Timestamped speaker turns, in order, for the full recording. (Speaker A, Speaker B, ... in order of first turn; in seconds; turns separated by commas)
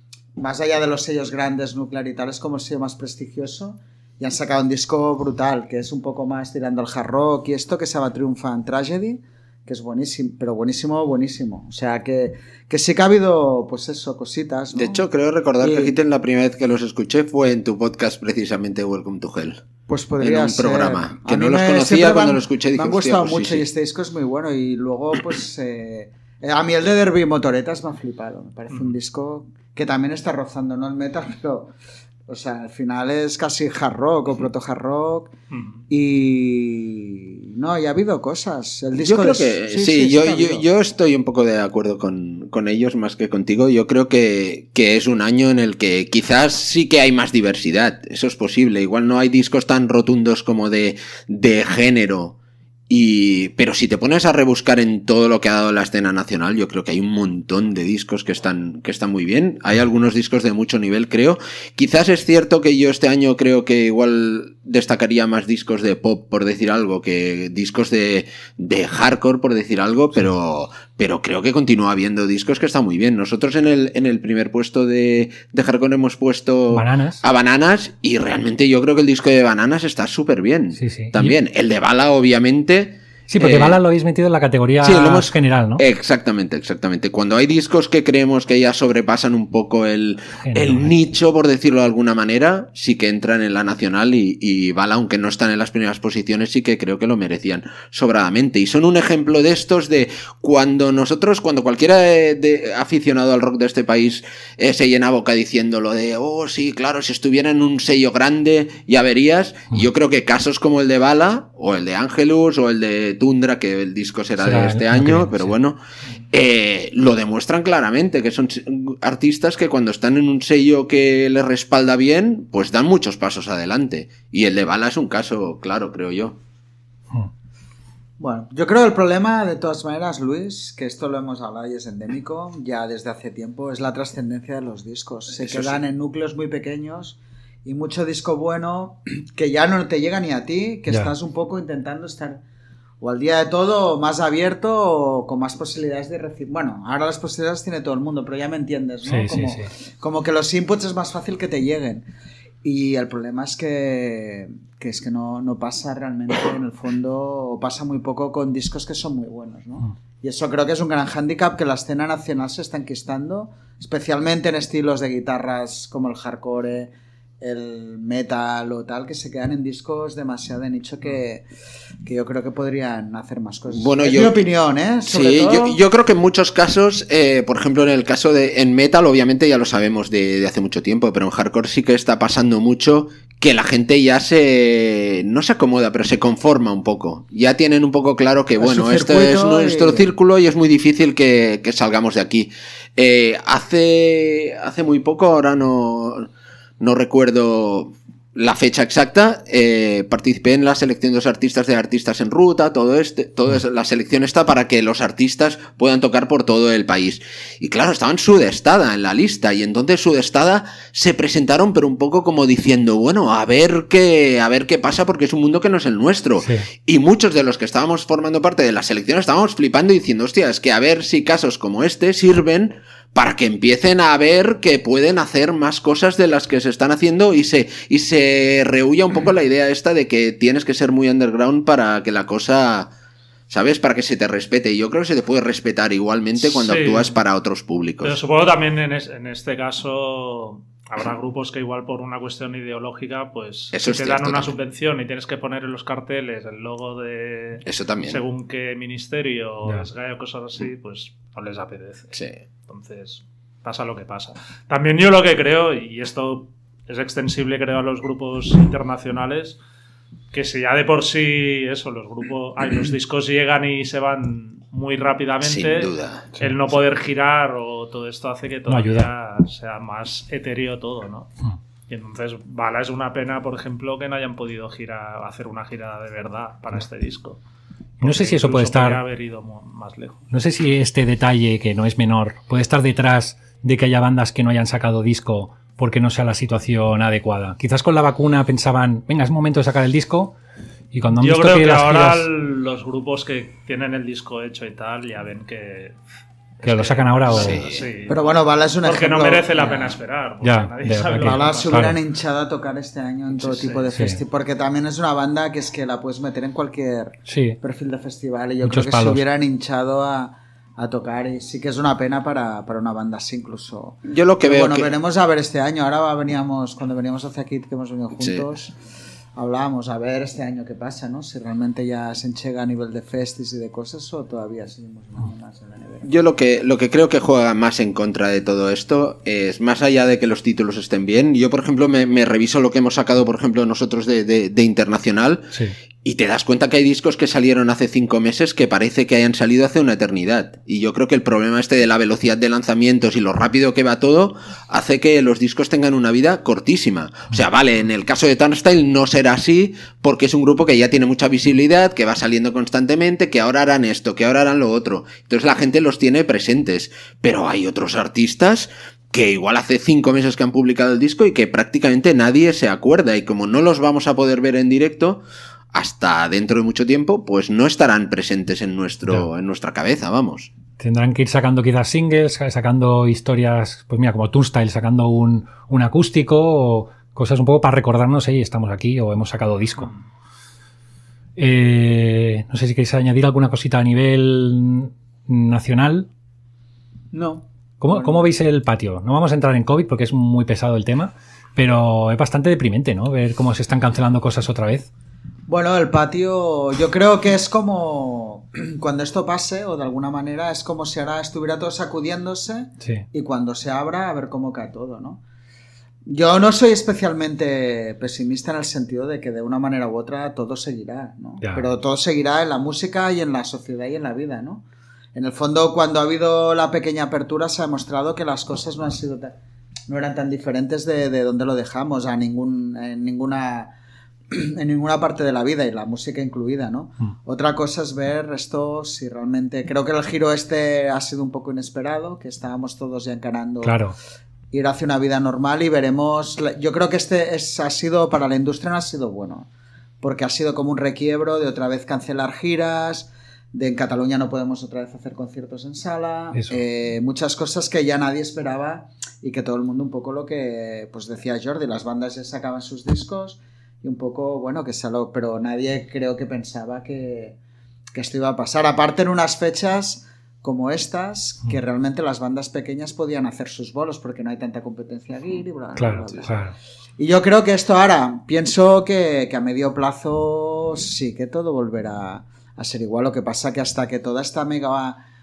Speaker A: 0.4-15.0, Speaker B: 14.7-19.6, Speaker A: 15.6-15.9, Speaker A: 19.9-31.7, Speaker B: 20.2-23.6, Speaker A: 32.3-35.3, Speaker C: 35.5-35.8, Speaker A: 35.9-40.7, Speaker B: 39.0-52.4, Speaker B: 52.9-83.8, Speaker D: 76.7-77.2, Speaker D: 80.8-81.4, Speaker D: 83.3-85.8, Speaker B: 84.8-115.8, Speaker D: 90.4-90.9, Speaker D: 114.4-115.5, Speaker B: 116.3-126.4, Speaker A: 128.2-142.4, Speaker B: 135.4-135.8, Speaker A: 143.0-152.1, Speaker D: 149.1-149.7, Speaker A: 152.6-171.4, Speaker A: 172.0-175.8, Speaker B: 173.7-174.4, Speaker B: 175.1-196.3, Speaker A: 188.6-190.1, Speaker B: 196.8-232.9, Speaker D: 216.4-216.7, Speaker B: 233.5-238.2, Speaker C: 236.4-237.2, Speaker C: 238.0-259.6, Speaker B: 243.7-244.5, Speaker B: 247.7-248.2, Speaker C: 260.3-271.3, Speaker B: 265.4-266.3, Speaker D: 268.7-269.1, Speaker C: 271.9-277.4, Speaker C: 278.0-280.2, Speaker D: 278.0-279.0, Speaker D: 280.3-290.4, Speaker D: 290.9-292.3, Speaker C: 291.2-296.0, Speaker C: 296.6-301.9, Speaker D: 296.6-297.6, Speaker B: 297.3-297.9, Speaker A: 298.1-300.0, Speaker D: 300.4-302.0, Speaker A: 301.2-318.8, Speaker C: 303.4-303.8, Speaker D: 303.9-304.2, Speaker D: 307.3-307.6, Speaker D: 308.6-309.2, Speaker B: 314.1-314.9, Speaker A: 319.4-326.1, Speaker B: 326.0-335.5, Speaker B: 336.0-365.2, Speaker B: 365.7-370.5, Speaker D: 370.8-379.9, Speaker D: 381.4-386.1, Speaker A: 387.1-388.3, Speaker D: 387.8-394.9, Speaker A: 395.5-405.2, Speaker A: 406.1-414.6, Speaker A: 415.1-419.3, Speaker A: 419.9-423.7, Speaker A: 424.3-433.8, Speaker D: 433.6-433.9, Speaker A: 434.5-439.5, Speaker A: 440.0-457.4, Speaker A: 457.9-466.3, Speaker D: 465.8-466.5, Speaker A: 467.0-475.0